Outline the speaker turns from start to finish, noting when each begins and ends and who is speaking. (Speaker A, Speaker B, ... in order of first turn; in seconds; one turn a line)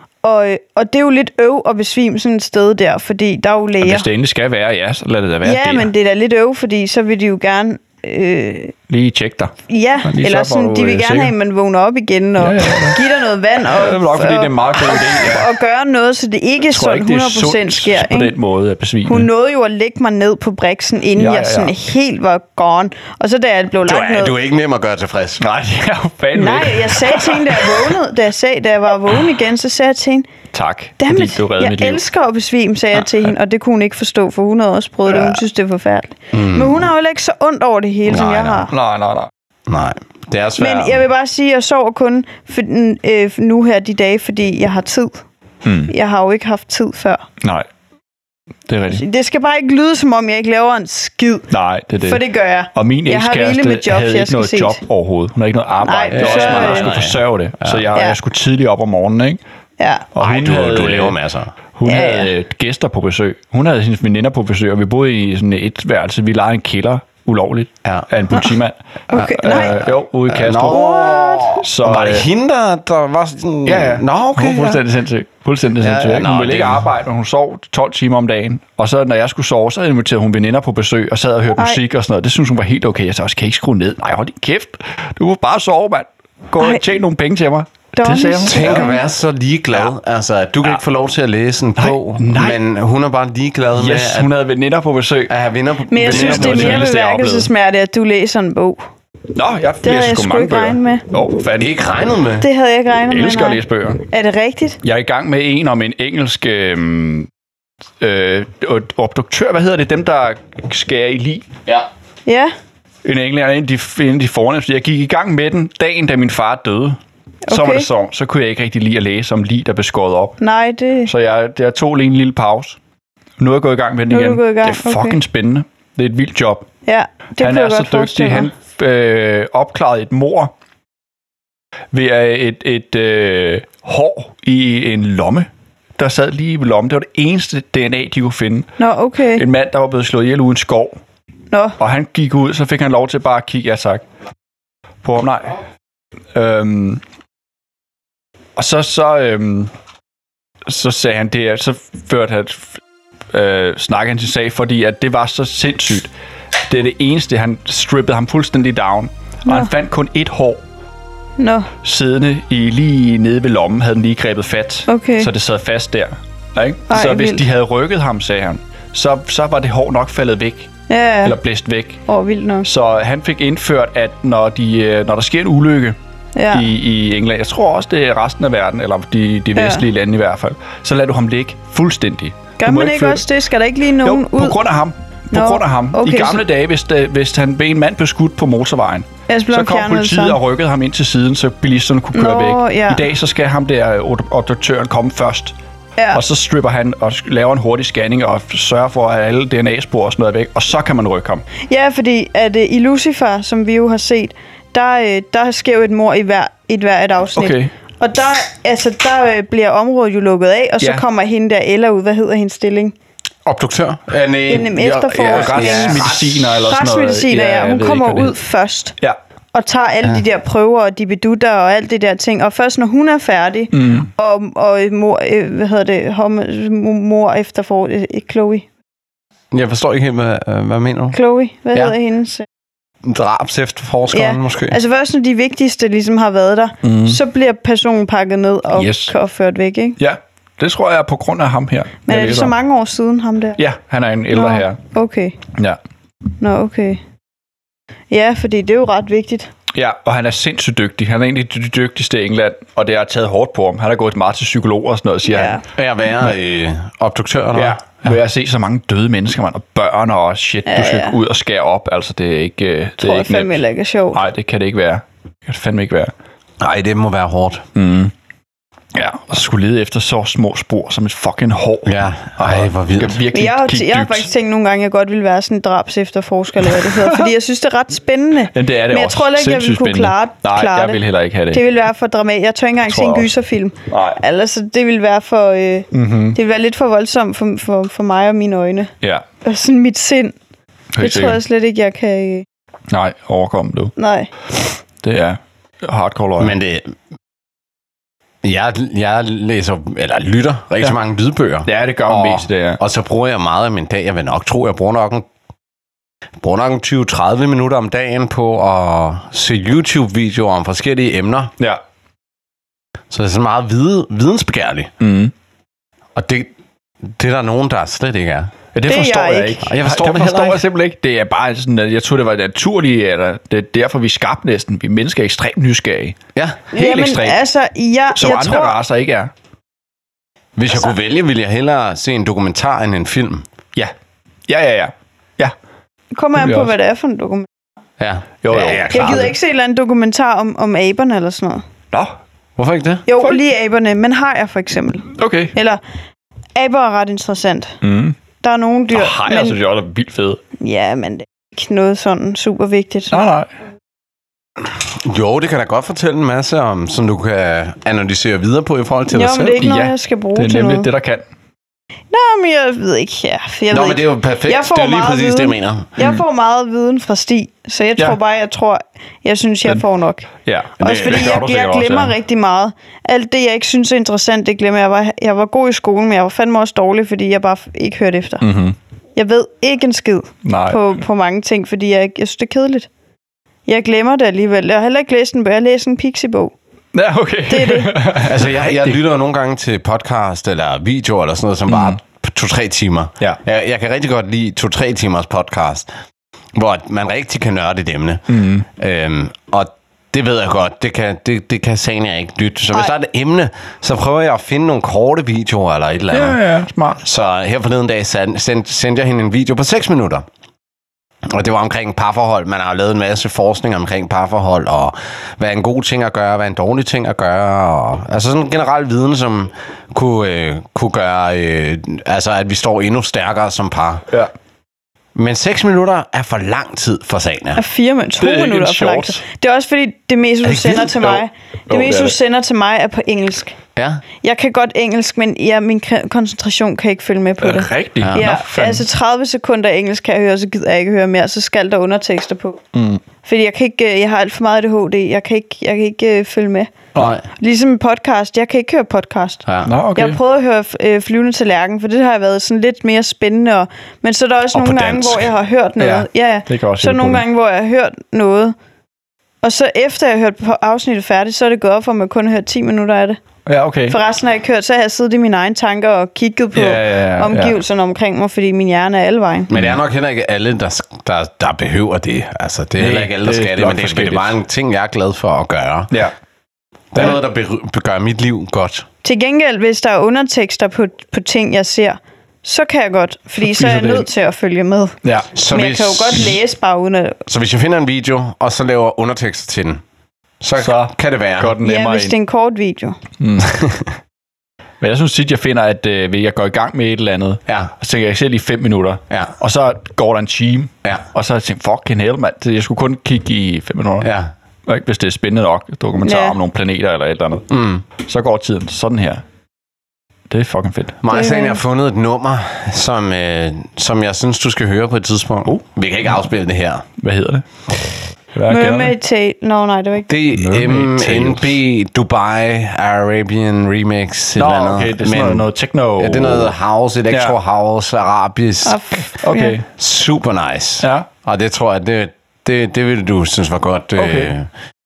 Speaker A: 0.2-4.1
Speaker B: 3.8-5.9
Speaker A: 5.4-8.7
Speaker B: 8.9-9.5
Speaker A: 9.7-18.4
Speaker B: 10.0-11.3
Speaker B: 12.4-13.0
Speaker B: 13.6-15.4
Speaker B: 16.7-19.3
Speaker A: 19.1-24.3
Speaker B: 21.1-21.7
Speaker C: 23.8-25.4
Speaker B: 25.4-27.9
Speaker A: 26.3-30.3
Speaker B: 30.5-32.0
Speaker A: 31.0-38.7
Speaker B: 33.0-33.3
Speaker C: 36.3-36.8
Speaker C: 38.1-38.7
Speaker B: 38.7-39.3
Speaker C: 39.7-41.0
Speaker A: 40.6-45.2
Speaker B: 45.6-45.9
Speaker A: 45.9-47.2
Speaker B: 47.4-47.7
Speaker B: 48.7-49.0
Speaker A: 48.9-51.5
Speaker B: 51.5-52.2
Speaker A: 52.0-54.8
Speaker B: 52.7-59.4
Speaker A: 55.8-57.0
Speaker C: 56.1-57.9
Speaker A: 59.8-60.1
Speaker B: 60.1-61.2
Speaker C: 60.2-61.5
Speaker B: 61.8-72.2
Speaker A: 61.9-62.3
Speaker A: 69.1-69.9
Speaker C: 70.3-74.8
Speaker A: 70.6-71.6
Speaker B: 73.6-88.9
Speaker C: 75.8-76.8
Speaker A: 81.5-81.8
Speaker A: 86.6-86.8
Speaker A: 88.0-89.0
Speaker C: 88.4-94.3
Speaker B: 91.8-92.6
Speaker B: 93.8-95.3
Speaker C: 95.3-96.9
Speaker A: 95.9-98.8
Speaker B: 96.0-97.5
Speaker B: 99.3-101.7
Speaker A: 99.8-101.0
Speaker C: 101.6-102.5
Speaker A: 102.4-104.8
Speaker B: 103.1-104.0
Speaker B: 104.8-107.3
Speaker B: 108.0-111.5
Speaker A: 112.2-112.5
Speaker B: 113.0-117.0
Speaker A: 117.5-117.9
Speaker B: 117.5-120.4
Speaker A: 120.4-121.1
Speaker B: 121.0-122.8
Speaker B: 123.4-126.7
Speaker A: 124.1-125.2
Speaker A: 126.8-128.5
Speaker B: 127.4-130.5
Speaker B: 131.9-138.7
Speaker A: 138.8-139.4
Speaker B: 139.3-141.0
Speaker A: 141.5-141.8
Speaker B: 141.8-144.0
Speaker B: 145.0-145.6
Speaker B: 146.3-147.0
Speaker B: 148.6-149.7
Speaker B: 150.7-152.8
Speaker B: 153.3-156.1
Speaker B: 156.7-160.6
Speaker A: 161.4-161.7
Speaker B: 161.8-170.7
Speaker A: 164.9-165.3
Speaker A: 166.9-167.5
Speaker A: 170.9-171.4
Speaker B: 171.2-172.0
Speaker A: 172.1-172.7
Speaker B: 172.6-176.0
Speaker A: 176.3-176.7
Speaker B: 176.5-183.2
Speaker A: 179.6-179.8
Speaker A: 182.6-184.6
Speaker B: 184.0-195.6
Speaker A: 185.3-186.4
Speaker A: 189.3-190.4
Speaker A: 192.1-193.1
Speaker B: 196.1-201.4
Speaker A: 201.7-212.9
Speaker B: 207.3-207.7
Speaker C: 213.4-216.6
Speaker A: 214.5-218.9
Speaker B: 215.2-218.3
Speaker A: 219.5-228.7
Speaker B: 223.7-224.1
Speaker C: 229.5-231.2
Speaker A: 231.1-232.4
Speaker C: 233.0-234.8
Speaker A: 234.1-240.0
Speaker B: 236.8-237.2
Speaker B: 238.7-239.1
Speaker B: 240.0-242.5
Speaker A: 242.1-243.6
Speaker B: 243.6-244.8
Speaker A: 244.3-245.4
Speaker A: 246.4-247.0
Speaker A: 248.1-249.5
Speaker B: 249.7-255.6
Speaker A: 255.2-255.6
Speaker C: 255.7-258.1
Speaker B: 257.5-263.6
Speaker A: 260.7-261.2
Speaker A: 263.0-264.2
Speaker B: 264.1-266.1
Speaker C: 266.6-267.7
Speaker B: 267.7-268.1
Speaker B: 268.9-274.3
Speaker C: 271.8-273.2
Speaker A: 273.3-281.0
Speaker B: 276.6-277.3
Speaker B: 278.5-281.6
Speaker A: 281.5-288.9
Speaker B: 282.8-283.3
Speaker B: 283.9-284.2
Speaker B: 285.9-286.4
Speaker A: 289.4-290.3
Speaker B: 290.9-291.4
Speaker A: 291.0-292.4
Speaker B: 292.9-293.9
Speaker A: 294.0-294.3
Speaker B: 295.0-296.5
Speaker C: 296.4-296.9
Speaker C: 298.4-305.3
Speaker B: 301.6-302.8
Speaker C: 306.4-311.5
Speaker C: 313.1-314.9
Speaker B: 315.0-315.3
Speaker C: 316.1-316.5
Speaker C: 317.0-318.5
Speaker B: 318.7-326.2
Speaker A: 318.9-319.6
Speaker C: 319.6-320.6
Speaker C: 326.3-326.6
Speaker B: 326.7-327.4
Speaker A: 326.7-328.8
Speaker B: 328.1-329.3
Speaker C: 330.6-333.4
Speaker B: 334.5-335.5
Speaker A: 336.1-337.4
Speaker B: 336.4-336.7
Speaker C: 338.0-339.3
Speaker B: 338.4-339.3
Speaker A: 338.7-341.6
Speaker C: 342.6-343.1
Speaker A: 343.1-345.8
Speaker B: 345.1-345.5
Speaker A: 346.6-347.8
Speaker B: 347.8-348.2
Speaker A: 348.4-349.6
Speaker B: 348.9-350.4
Speaker A: 350.6-353.1
Speaker B: 353.1-353.5
Speaker C: 354.6-359.6
Speaker A: 359.1-360.9
Speaker B: 359.6-361.2
Speaker A: 362.1-370.3
Speaker C: 363.7-365.9
Speaker B: 370.4-372.1
Speaker C: 370.8-371.4
Speaker A: 370.8-378.4
Speaker B: 378.4-378.8
Speaker A: 379.1-382.9
Speaker B: 380.4-380.8
Speaker A: 383.7-386.5
Speaker B: 386.9-388.9
Speaker A: 387.5-388.0
Speaker C: 388.2-395.9
Speaker B: 391.7-392.0
Speaker C: 396.5-406.4
Speaker B: 398.3-398.6
Speaker B: 406.1-407.0
Speaker C: 407.0-410.2
Speaker C: 411.2-424.0
Speaker C: 425.1-427.6
Speaker A: 427.6-433.6
Speaker B: 428.2-429.2
Speaker C: 430.4-431.1
Speaker B: 431.7-432.1
Speaker C: 433.8-434.0
Speaker A: 434.2-442.6
Speaker B: 437.4-438.9
Speaker B: 442.7-443.0
Speaker A: 443.2-446.8
Speaker C: 446.9-447.2
Speaker A: 447.4-458.5
Speaker C: 449.4-449.7
Speaker B: 449.6-450.2
Speaker C: 454.5-455.3
Speaker B: 455.8-457.2
Speaker A: 459.4-463.2
Speaker B: 463.4-464.0
Speaker A: 463.9-469.5
Speaker B: 466.5-467.5
Speaker C: 469.5-475.9
Speaker B: 472.8-474.4
Speaker C: 476.9-478.9
Speaker A: 479.0-485.0
Speaker B: 483.4-484.1
Speaker B: 485.0-485.3
Speaker C: 485.3-486.4
Speaker A: 485.5-487.2
Speaker C: 487.3-489.8
Speaker C: 490.4-491.6
Speaker B: 490.6-492.1
Speaker A: 491.6-493.0
Speaker B: 493.2-493.6
Speaker C: 493.5-493.9
Speaker B: 494.8-504.1
Speaker C: 504.0-504.3
Speaker B: 504.7-507.5
Speaker A: 506.0-506.4
Speaker C: 507.5-507.8
Speaker B: 508.0-509.2
Speaker B: 510.3-511.0
Speaker C: 511.0-516.8
Speaker A: 511.1-511.6
Speaker B: 517.0-517.4
Speaker B: 518.3-518.9
Speaker A: 518.5-520.1
Speaker C: 520.1-525.5
Speaker B: 520.3-521.5
Speaker B: 524.4-526.5
Speaker C: 526.0-528.8
Speaker B: 527.1-527.4
Speaker A: 528.6-529.5
Speaker B: 529.1-529.6
Speaker C: 529.7-534.5
Speaker B: 530.8-531.1
Speaker B: 534.0-534.3